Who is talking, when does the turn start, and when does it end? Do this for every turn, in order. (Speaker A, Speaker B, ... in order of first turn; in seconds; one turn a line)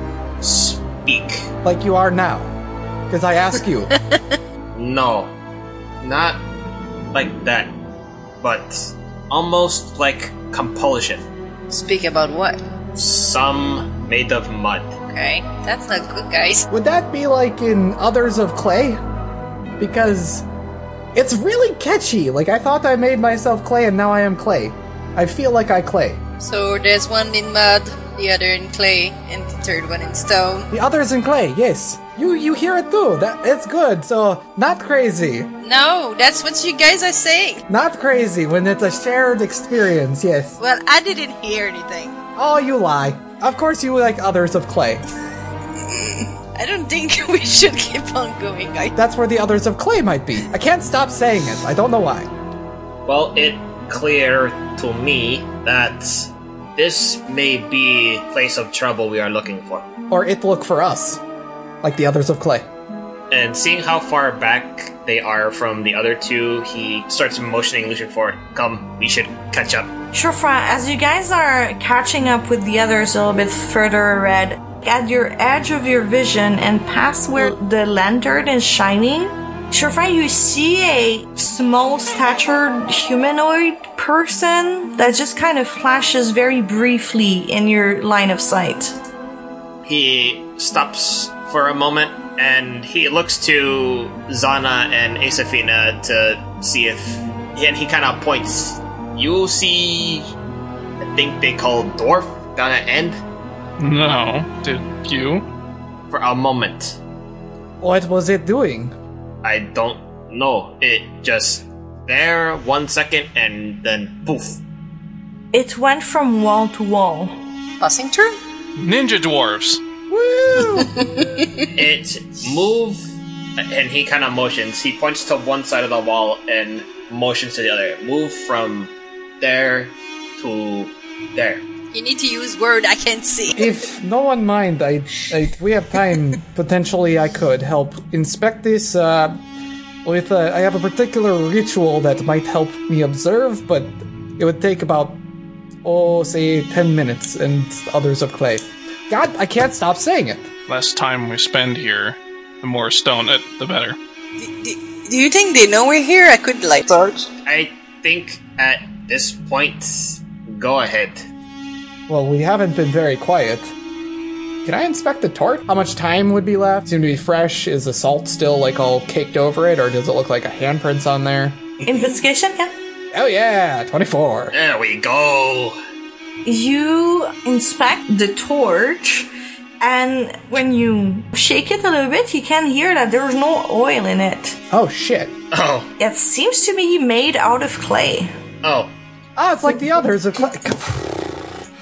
Speaker A: 0.4-1.5
Speaker B: 1.6-2.5
Speaker B: 3.1-3.9
Speaker A: 4.7-5.3
Speaker A: 6.0-6.4
Speaker A: 7.1-7.7
Speaker A: 8.4-11.2
Speaker C: 11.7-12.6
Speaker A: 12.9-15.0
Speaker C: 15.1-16.7
Speaker B: 16.7-19.0
Speaker B: 19.8-20.4
Speaker B: 21.1-26.2
Speaker C: 26.4-30.7
Speaker B: 30.7-35.5
Speaker C: 35.6-37.6
Speaker B: 37.7-40.6
Speaker C: 40.6-42.2
Speaker B: 42.4-45.0
Speaker C: 45.8-49.0
Speaker B: 49.0-52.3
Speaker A: 53.0-59.9
Speaker B: 60.1-61.2
Speaker B: 61.8-62.6
Speaker A: 63.3-69.9
Speaker D: 70.1-89.0
Speaker A: 89.8-100.3
Speaker A: 101.0-103.2
Speaker E: 103.8-105.4
Speaker A: 106.1-107.0
Speaker B: 107.8-108.9
Speaker A: 109.4-114.6
Speaker D: 115.5-117.4
Speaker C: 117.8-118.4
Speaker E: 118.8-119.8
Speaker B: 120.1-121.3
Speaker C: 120.7-121.7
Speaker A: 121.7-123.0
Speaker A: 123.6-131.6
Speaker C: 131.9-133.8
Speaker B: 133.5-139.4
Speaker B: 140.0-145.2
Speaker B: 145.8-150.5
Speaker E: 150.7-154.0
Speaker C: 154.4-157.3
Speaker A: 157.4-161.3
Speaker B: 162.1-163.7
Speaker B: 164.6-171.6
Speaker D: 171.8-172.7
Speaker B: 173.1-174.5
Speaker A: 174.5-175.8
Speaker D: 176.4-184.6
Speaker B: 184.7-185.3
Speaker A: 185.5-185.9
Speaker D: 186.0-188.3
Speaker A: 188.6-188.9
Speaker B: 189.3-191.2